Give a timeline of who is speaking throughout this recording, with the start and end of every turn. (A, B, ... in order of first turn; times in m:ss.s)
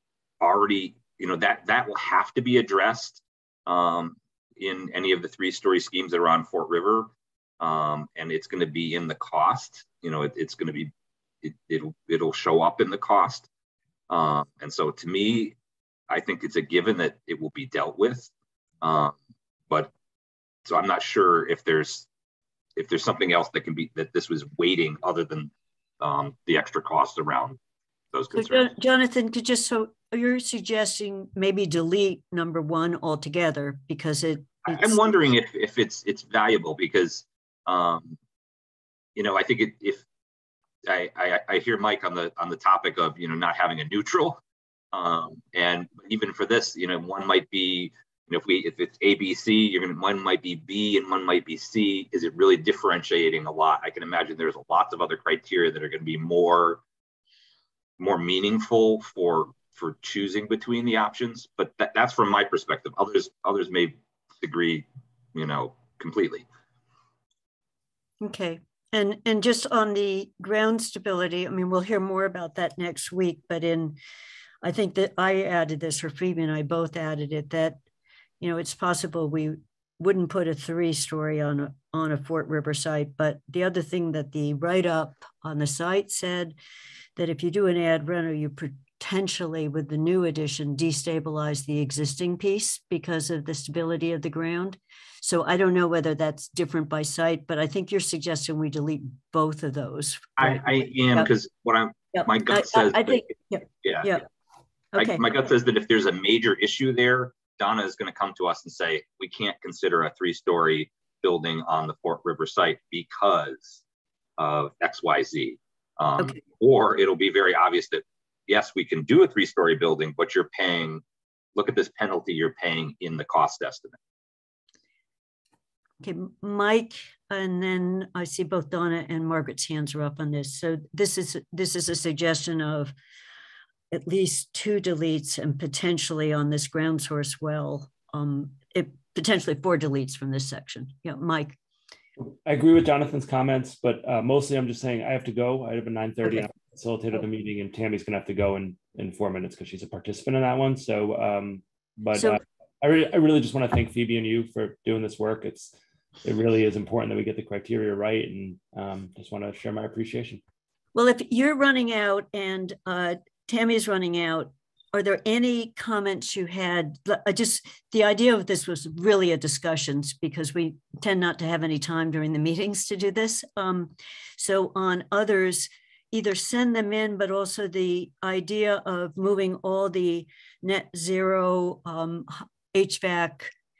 0:00.4-0:10.9 A
0:11.4-0:13.5 A
0:14.1-0:15.6 A
0:16.1-0:18.3 A
0:18.8-0:19.2 A
0:20.6-0:22.1 A
0:22.8-0:27.6 A
0:28.1-0:28.7 A
0:28.3-0:35.0 B
0:34.6-0:38.2 A
0:39.2-0:40.0 A
0:40.9-0:44.4 A
0:44.9-0:56.8 A
0:58.0-1:06.4 A
1:08.2-1:14.0 B
1:14.6-1:17.8 B
1:18.4-1:26.6 B
1:27.2-1:41.3 B
1:40.4-1:44.2 A
1:42.1-1:44.2 B
1:44.9-1:45.2 B
1:45.0-1:53.8 A
1:54.4-2:01.0 A
2:01.6-2:04.0 A
2:06.0-2:12.9 B
2:13.9-2:21.6 B
2:22.2-2:40.4 C
2:32.1-2:32.4 B
2:40.9-3:03.5 B